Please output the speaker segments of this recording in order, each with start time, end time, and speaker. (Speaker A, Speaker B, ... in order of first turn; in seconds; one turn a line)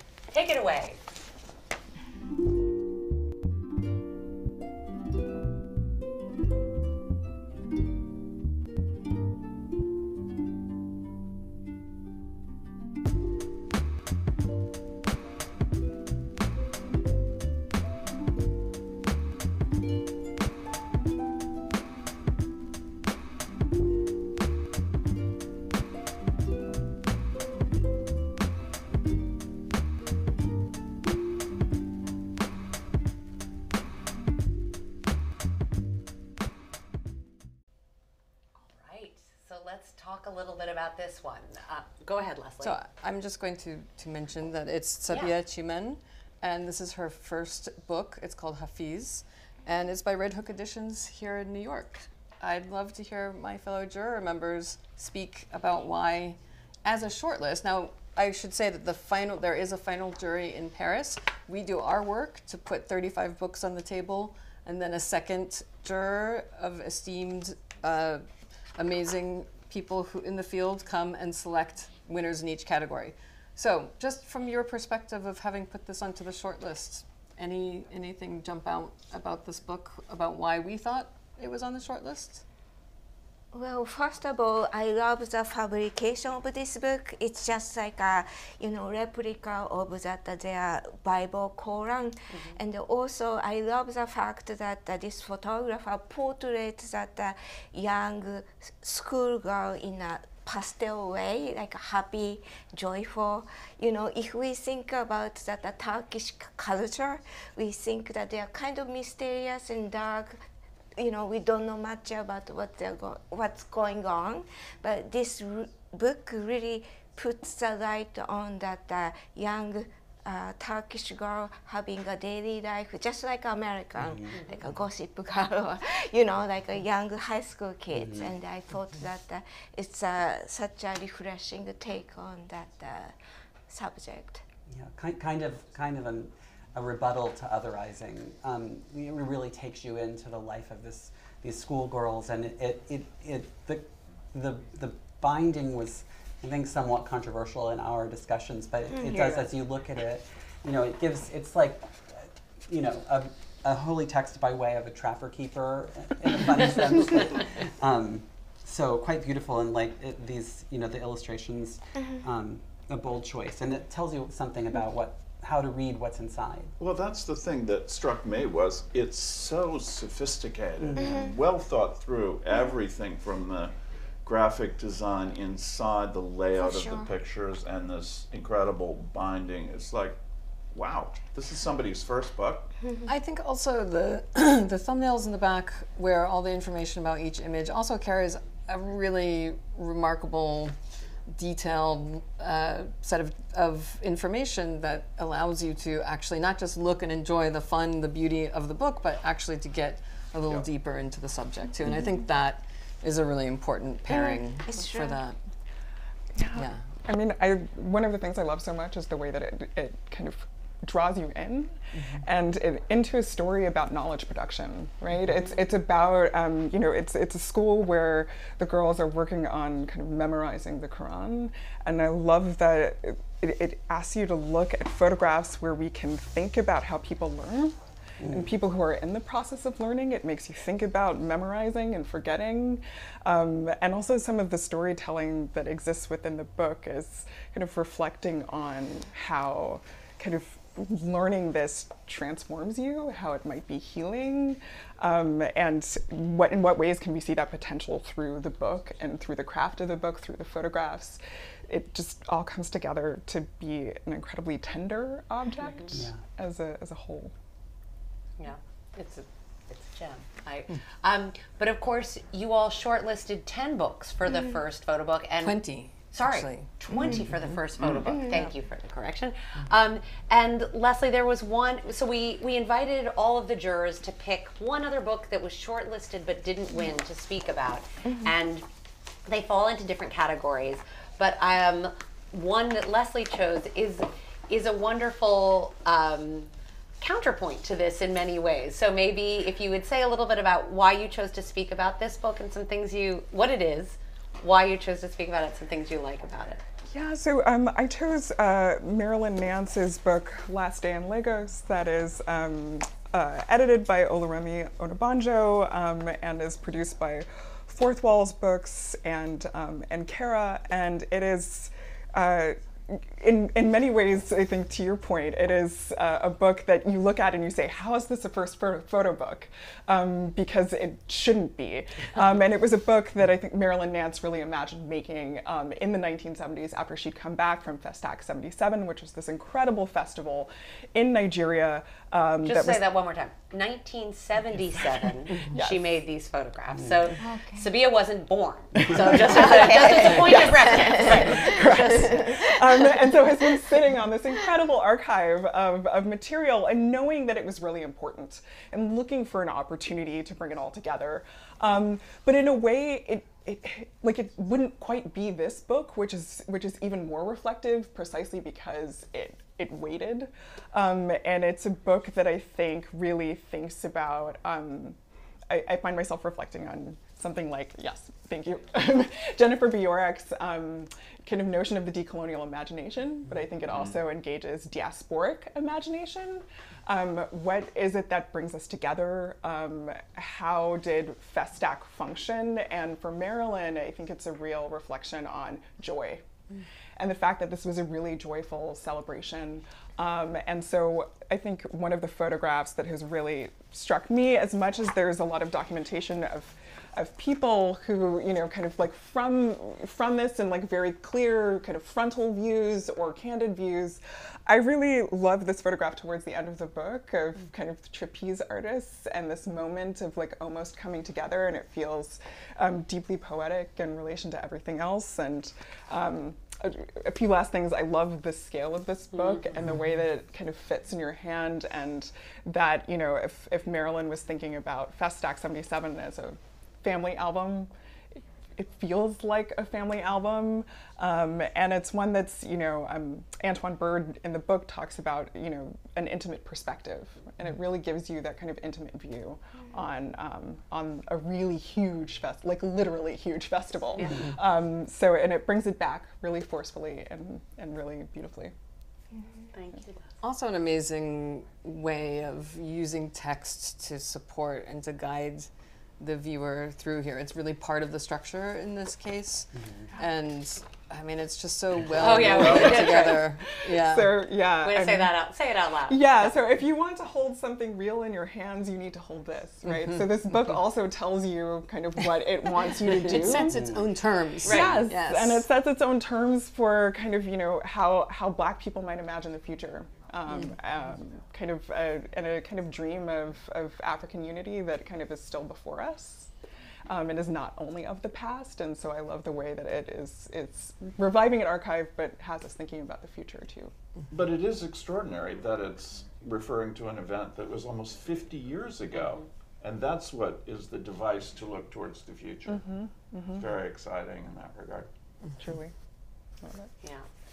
Speaker A: 0.3-1.0
Speaker A: 38.6-42.7
Speaker B: 42.6-68.2
Speaker B: 68.8-82.4
Speaker C: 83.5-110.4
Speaker C: 111.0-133.1
Speaker D: 124.0-124.4
Speaker D: 127.9-128.3
Speaker C: 133.7-134.4
Speaker D: 134.7-166.7
Speaker E: 166.8-180.2
Speaker D: 170.8-171.3
Speaker C: 176.6-177.1
Speaker E: 180.7-182.7
Speaker B: 183.1-190.7
Speaker B: 191.3-205.4
Speaker C: 204.1-205.2
Speaker F: 206.3-257.3
Speaker B: 206.5-206.8
Speaker D: 228.2-228.5
Speaker D: 255.9-256.2
Speaker A: 258.4-265.6
Speaker B: 265.4-266.7
Speaker A: 266.1-278.6
Speaker C: 266.9-267.2
Speaker A: 279.2-286.5
Speaker A: 287.0-296.6
Speaker F: 296.9-332.8
Speaker A: 332.4-342.3
Speaker F: 335.3-335.8
Speaker C: 337.2-337.7
Speaker F: 338.8-365.0
Speaker C: 339.1-342.4
Speaker F: 365.5-386.2
Speaker F: 386.9-427.7
Speaker F: 428.6-448.5
Speaker A: 443.9-444.2
Speaker A: 449.5-450.0
Speaker B: 450.2-464.2
Speaker D: 459.6-459.9
Speaker A: 461.9-463.3
Speaker E: 462.2-462.7
Speaker F: 463.6-465.2
Speaker A: 464.6-466.3
Speaker F: 465.9-473.8
Speaker B: 472.9-475.4
Speaker D: 473.5-473.8
Speaker F: 474.4-486.3
Speaker A: 474.4-474.8
Speaker F: 486.9-493.7
Speaker E: 494.1-502.7
Speaker F: 502.5-503.4
Speaker E: 503.3-504.9
Speaker F: 505.4-505.7
Speaker F: 506.4-506.7